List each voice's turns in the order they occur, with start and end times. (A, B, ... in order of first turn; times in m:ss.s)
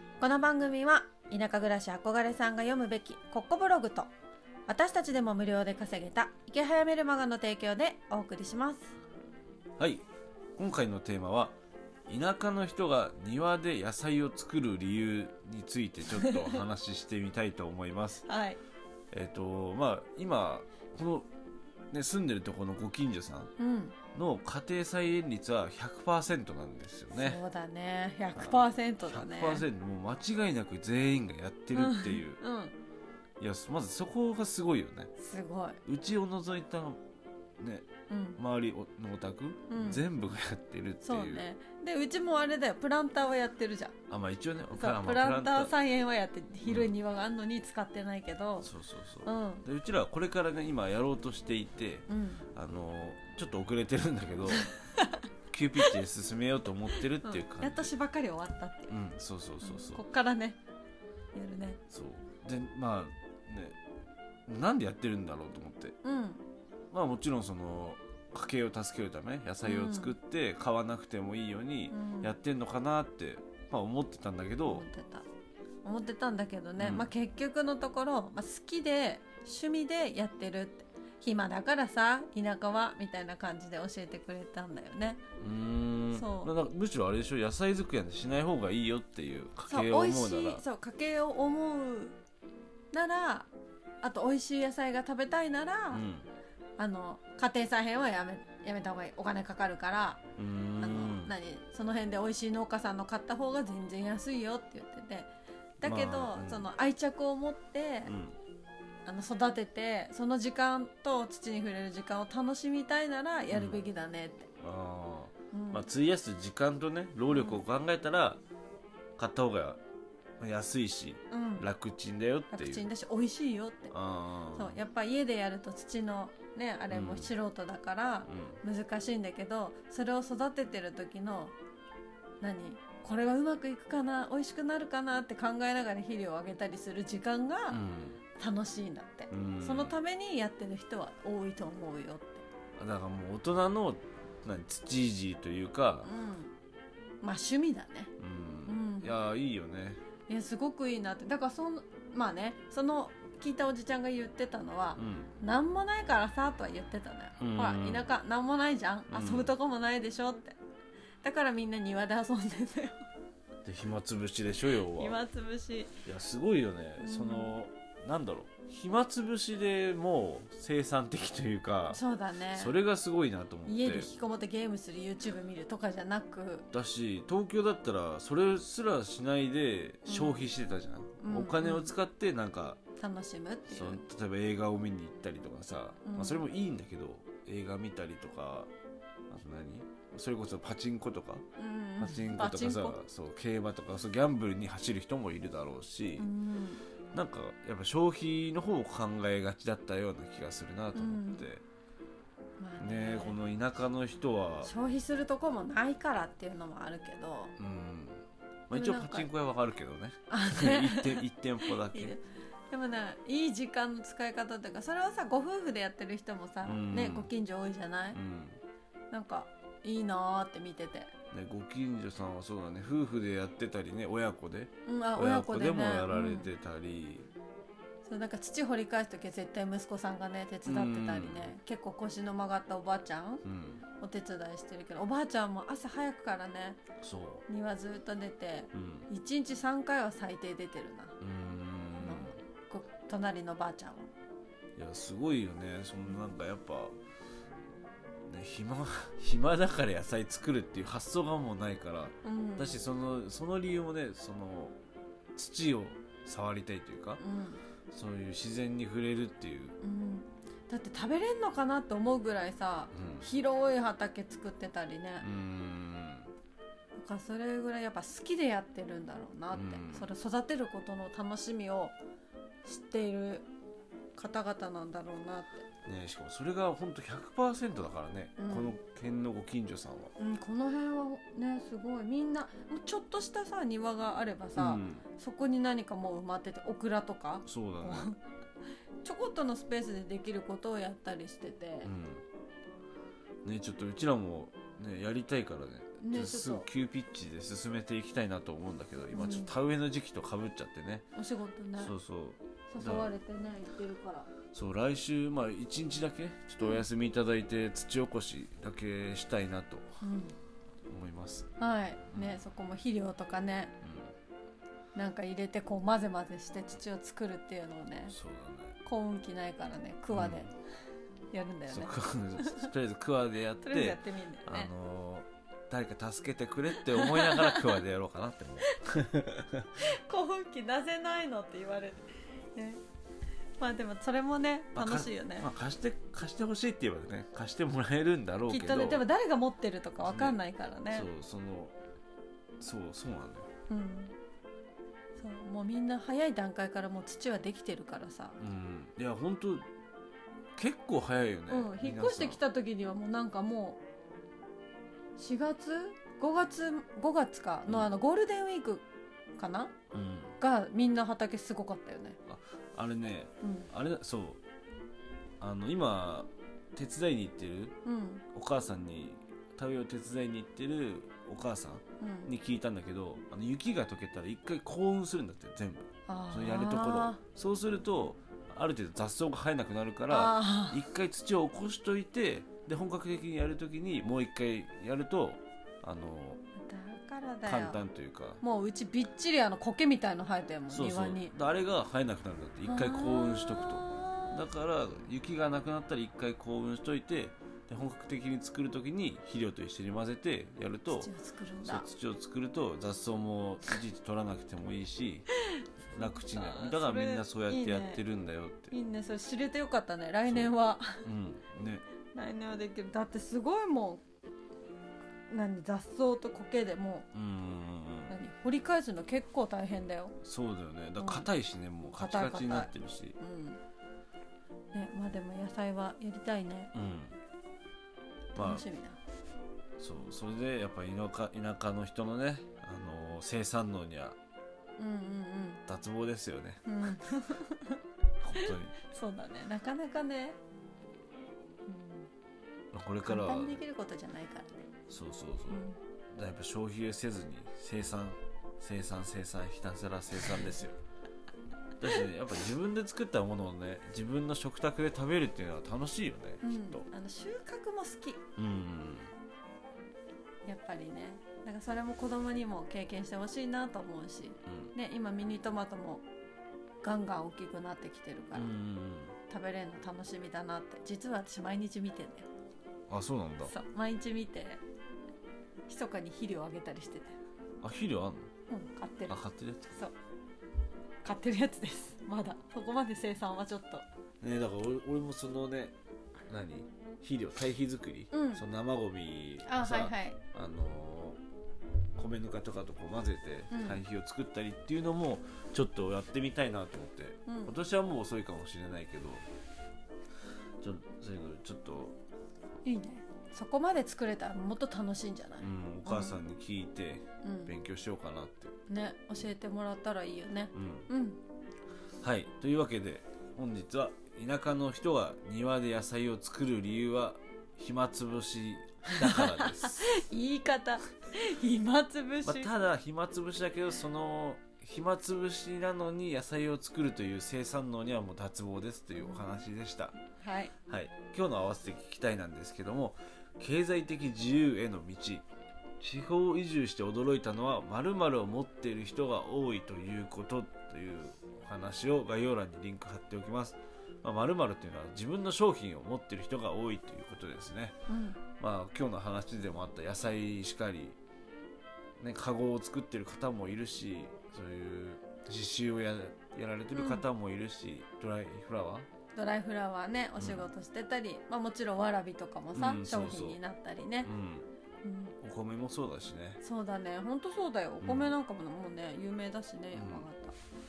0:00.2-0:04.1 A
0:04.7-0:09.0 A
0:09.8-0:10.0 B
0:10.6-0:11.6 B
0:12.1-0:18.2 B
0:16.1-0:16.6 A
0:18.3-0:18.6 A
0:19.1-0:21.3 B
0:21.9-0:23.5 B
0:23.6-0:24.0 A
0:24.1-0:27.4 B
0:27.1-0:29.7 A
0:28.3-0:32.4 B
0:31.7-0:32.8 A
0:33.4-0:35.1 B
0:35.2-0:35.8 A
0:35.9-0:37.0 B
0:37.6-0:37.9 B
0:38.1-0:38.4 A
0:38.4-0:41.4 B
0:39.7-0:40.0 A
0:41.0-0:44.0 A
0:44.1-0:45.7 B
0:44.8-0:48.7 A
0:48.6-0:54.7 B
0:49.2-0:49.6 A
0:52.1-0:52.4 A
0:54.6-0:55.2 A
0:55.5-0:57.9 B
0:57.2-0:59.0 A
0:58.9-1:00.0 B
0:59.6-1:00.6 A
1:01.3-1:01.8 A
1:01.9-1:03.8 B
1:04.5-1:06.0 B
1:06.0-1:06.4 A
1:06.9-1:14.8 B
1:09.6-1:10.2 A
1:11.9-1:12.3 A
1:14.7-1:15.3 A
1:15.8-1:25.2 A
1:16.8-1:17.1 B
1:25.4-1:30.6 B
1:26.1-1:26.5 A
1:29.7-1:32.2 A
1:32.9-1:33.5 A
1:34.0-1:36.0 A
1:35.9-1:36.3 B
1:36.8-1:40.2 A
1:40.4-1:41.3 B
1:40.8-1:45.3 A
1:45.8-1:48.1 A
1:45.8-1:46.7 B
1:48.1-1:48.4 B
1:49.1-1:54.5 A
1:53.5-1:53.8 B
1:54.6-1:58.4 B
1:55.5-1:55.9 A
1:57.3-1:57.6 A
1:59.2-1:59.8 B
2:00.4-2:02.9 B
2:01.3-2:01.7 A
2:02.5-2:03.9 A
2:03.9-2:04.8 B
2:04.5-2:11.6 A
2:06.9-2:07.3 B
2:08.3-2:08.6 B
2:12.4-2:17.8 A
2:17.7-2:18.2 B
2:18.4-2:22.4 A
2:19.3-2:20.0 B
2:22.8-2:26.1 B
2:26.0-2:26.5 A
2:27.2-2:28.1 A
2:28.2-2:30.0 B
2:28.7-2:29.1 A
2:30.3-2:40.6 A
2:35.0-2:35.3 B
2:37.4-2:38.1 B
2:39.1-2:39.5 B
2:41.2-2:43.0 A
2:43.6-2:45.2 B
2:44.9-2:46.0 A
2:46.1-2:52.0 B
2:47.0-2:47.5 A
2:51.9-2:52.8 A
2:52.5-2:54.1 B
2:53.7-2:56.7 A
2:56.7-3:02.8 B
3:00.1-3:00.5 A
3:01.2-3:01.9 A
3:03.0-3:04.0 A
3:03.7-3:08.7 B
3:06.0-3:06.4 A
3:09.3-3:11.4 B
3:11.6-3:13.0 A
3:12.0-3:16.3 B
3:16.2-3:16.8 A
3:17.1-3:21.6 B
3:21.0-3:21.4 A
3:22.6-3:23.4 A
3:22.8-3:24.7 B
3:24.6-3:27.5 A
3:27.6-3:32.2 B
3:28.7-3:29.3 A
3:30.3-3:38.2 A
3:36.6-3:37.3 B
3:38.1-3:38.6 B
3:39.1-3:41.1 A
3:41.3-3:47.3 B
3:44.9-3:46.5 A
3:48.0-3:53.4 A
3:50.7-3:51.5 B
3:53.4-3:53.8 B
3:54.0-3:56.8 A
3:57.0-3:57.4 B
3:57.5-4:01.2 A
3:58.7-3:59.1 B
4:01.2-4:02.4 B
4:02.0-4:04.1 A
4:04.8-4:07.0 B
4:08.3-4:14.8 B
4:12.2-4:12.8 A
4:15.4-4:17.2 B
4:17.2-4:17.6 A
4:17.9-4:19.8 B
4:19.8-4:25.3 A
4:22.9-4:23.3 B
4:25.2-4:26.3 B
4:27.0-4:32.0 A
4:29.5-4:30.1 B
4:32.6-4:33.5 A
4:34.2-4:35.6 A
4:35.8-4:40.1 B
4:38.4-4:38.8 A
4:40.2-4:48.2 A
4:44.6-4:45.0 B
4:47.5-4:48.1 B
4:49.0-4:51.9 A
4:51.8-4:52.2 B
4:53.4-5:01.1 B
4:56.0-4:56.7 A
4:59.1-4:59.6 A
5:01.2-5:01.9 A
5:01.8-5:03.1 B
5:02.7-5:04.3 A
5:04.5-5:09.9 B
5:10.0-5:10.4 A
5:10.9-5:11.5 B
5:11.6-5:13.7 A
5:13.8-5:14.1 B
5:15.0-5:18.2 A
5:18.1-5:18.8 B
5:18.8-5:20.5 A
5:20.1-5:20.5 B
5:21.3-5:22.7 A
5:21.7-5:29.7 B
5:23.6-5:24.7 A
5:26.7-5:27.8 A
5:29.8-5:32.8 A
5:33.6-5:35.5 A
5:34.8-5:39.0 B
5:38.5-5:41.1 A
5:40.0-5:40.4 B
5:40.9-5:41.8 B
5:42.6-5:43.5 B
5:43.7-5:44.1 A
5:45.2-5:48.4 A
5:48.4-5:49.6 B
5:50.6-5:52.4 B
5:51.5-5:53.8 A
5:55.2-5:58.8 A
5:59.4-5:59.7 A
5:59.9-6:00.4 B
6:00.4-6:02.2 A
6:02.3-6:04.4 B
6:03.4-6:03.7 A
6:05.4-6:07.8 B
6:07.8-6:08.2 A
6:08.3-6:26.4 B
6:12.0-6:12.3 A
6:16.1-6:17.2 A
6:20.1-6:20.8 A
6:26.6-6:27.8 A
6:27.4-6:28.4 B
6:28.4-6:31.3 A
6:30.7-6:41.1 B
6:32.6-6:33.9 A
6:40.9-6:41.9 A
6:41.6-6:45.3 B
6:45.9-6:48.8 B
6:46.0-6:48.0 A
6:48.7-6:51.0 A
6:50.3-6:50.5 B
6:51.0-6:51.8 B
6:52.1-6:54.0 A
6:55.3-6:57.1 A
6:57.1-6:58.2 B
6:58.1-7:00.1 A
7:00.2-7:03.2 B
7:01.0-7:01.3 A
7:02.0-7:03.6 A
7:04.7-7:06.7 A
7:06.7-7:07.2 B
7:08.4-7:09.0 A
7:08.4-7:08.6 B
7:09.8-7:14.2 B
7:14.8-7:15.6 A
7:15.7-7:16.7 B
7:16.7-7:17.8 A
7:18.2-7:18.8 B
7:18.3-7:20.4 A
7:21.7-7:22.1 A
7:22.7-7:23.6 B
7:23.0-7:24.6 A
7:24.9-7:30.8 B
7:25.5-7:25.8 A
7:31.8-7:36.8 B
7:36.4-7:38.2 A
7:38.4-7:39.1 B
7:40.5-7:46.0 A
7:44.5-7:44.7 B
7:46.8-7:48.5 A
7:48.3-7:49.2 B
7:49.3-7:52.3 A
7:52.9-7:53.5 B
7:53.4-7:54.6 A
7:55.7-7:57.2 A
7:57.6-7:58.3 B
7:58.5-7:59.2 A
7:59.1-7:59.8 B
8:01.0-8:03.8 A
8:04.2-8:05.8 B
8:06.3-8:11.2 B
8:08.1-8:08.4 A
8:09.4-8:10.2 A
8:12.0-8:19.2 B
8:13.5-8:13.8 A
8:17.3-8:17.5 A
8:20.6-8:22.0 B
8:22.6-8:26.2 A
8:25.4-8:28.6 B
8:27.2-8:27.5 A
8:28.7-8:31.2 A
8:30.6-8:30.9 B
8:32.0-8:39.9 B
8:39.0-8:42.5 A
8:42.2-8:50.0 B
8:50.1-8:50.5 A
8:50.7-8:55.2 B
8:55.8-9:07.8 B
9:07.9-9:08.2 A
9:08.4-9:11.0 B
9:12.0-9:18.9 B
9:16.7-9:17.0 A
9:19.2-9:24.1 A
9:20.2-9:20.5 B
9:22.5-9:23.4 B
9:24.0-9:24.5 B
9:24.8-9:25.2 A
9:25.2-9:26.4 B
9:26.4-9:30.4 A
9:27.8-9:28.1 B
9:29.7-9:30.1 B